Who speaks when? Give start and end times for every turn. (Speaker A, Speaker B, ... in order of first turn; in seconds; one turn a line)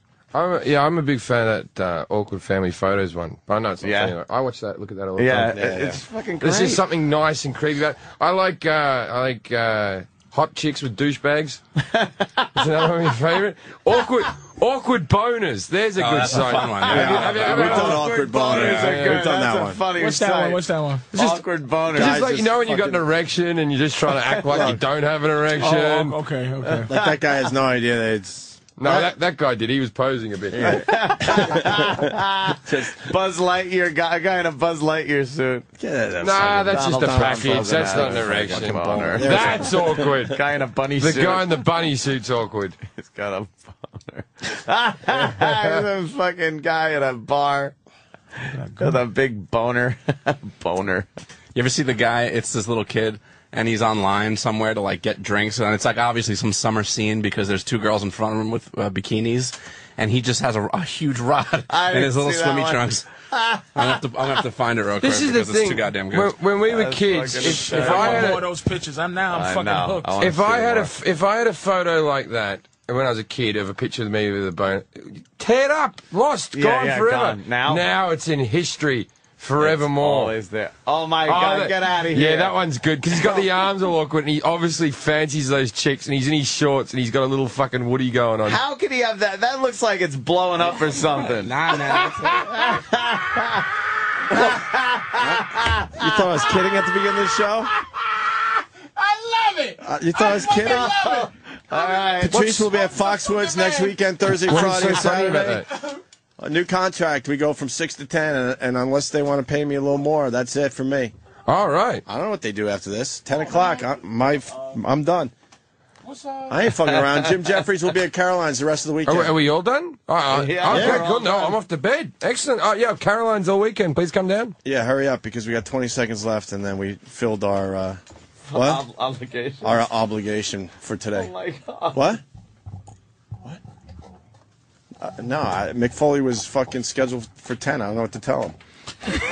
Speaker A: 0.3-5.7
Speaker B: 3.8-4.1
Speaker B: 5.2-6.8
Speaker C: 5.5-6.0
Speaker A: 6.4-11.6
Speaker B: 11.9-12.5
Speaker A: 12.5-19.2
Speaker D: 15.9-17.8
Speaker B: 16.3-22.2
Speaker C: 16.9-19.8
Speaker E: 19.9-21.1
Speaker A: 21.1-26.2
Speaker C: 21.9-23.1
Speaker C: 24.4-24.8
Speaker E: 25.6-26.9
Speaker B: 26.6-27.1
Speaker C: 26.9-29.1
Speaker A: 28.8-30.9
Speaker C: 30.5-33.1
Speaker B: 30.6-35.7
Speaker C: 35.8-40.2
Speaker A: 36.2-40.4
Speaker B: 36.7-41.6
Speaker A: 41.0-42.8
Speaker B: 42.9-47.7
Speaker E: 48.5-49.0
Speaker B: 48.8-51.1
Speaker D: 51.5-63.1
Speaker B: 61.7-64.0
Speaker D: 63.7-66.4
Speaker A: 65.0-68.5
Speaker B: 66.6-68.4
Speaker E: 67.4-70.1
Speaker B: 69.3-70.9
Speaker A: 70.2-80.4
Speaker B: 76.5-77.8
Speaker B: 79.6-82.5
Speaker A: 81.2-88.6
Speaker B: 83.2-83.4
Speaker B: 88.5-93.7
Speaker D: 90.9-92.4
Speaker E: 92.4-92.9
Speaker B: 94.3-96.1
Speaker C: 94.3-94.6
Speaker C: 95.2-97.7
Speaker E: 97.7-106.0
Speaker C: 99.8-101.1
Speaker B: 100.4-102.4
Speaker C: 102.2-105.7
Speaker A: 104.5-105.7
Speaker C: 106.4-111.1
Speaker A: 111.5-112.0
Speaker C: 112.0-115.3
Speaker E: 113.4-113.8
Speaker E: 116.0-116.7
Speaker C: 116.5-119.4
Speaker A: 119.0-124.5
Speaker B: 120.3-121.6
Speaker C: 120.7-121.0
Speaker C: 124.6-128.0
Speaker B: 128.5-129.8
Speaker C: 128.5-128.8
Speaker C: 129.6-131.3
Speaker B: 131.1-132.0
Speaker C: 131.9-132.2
Speaker C: 135.0-138.6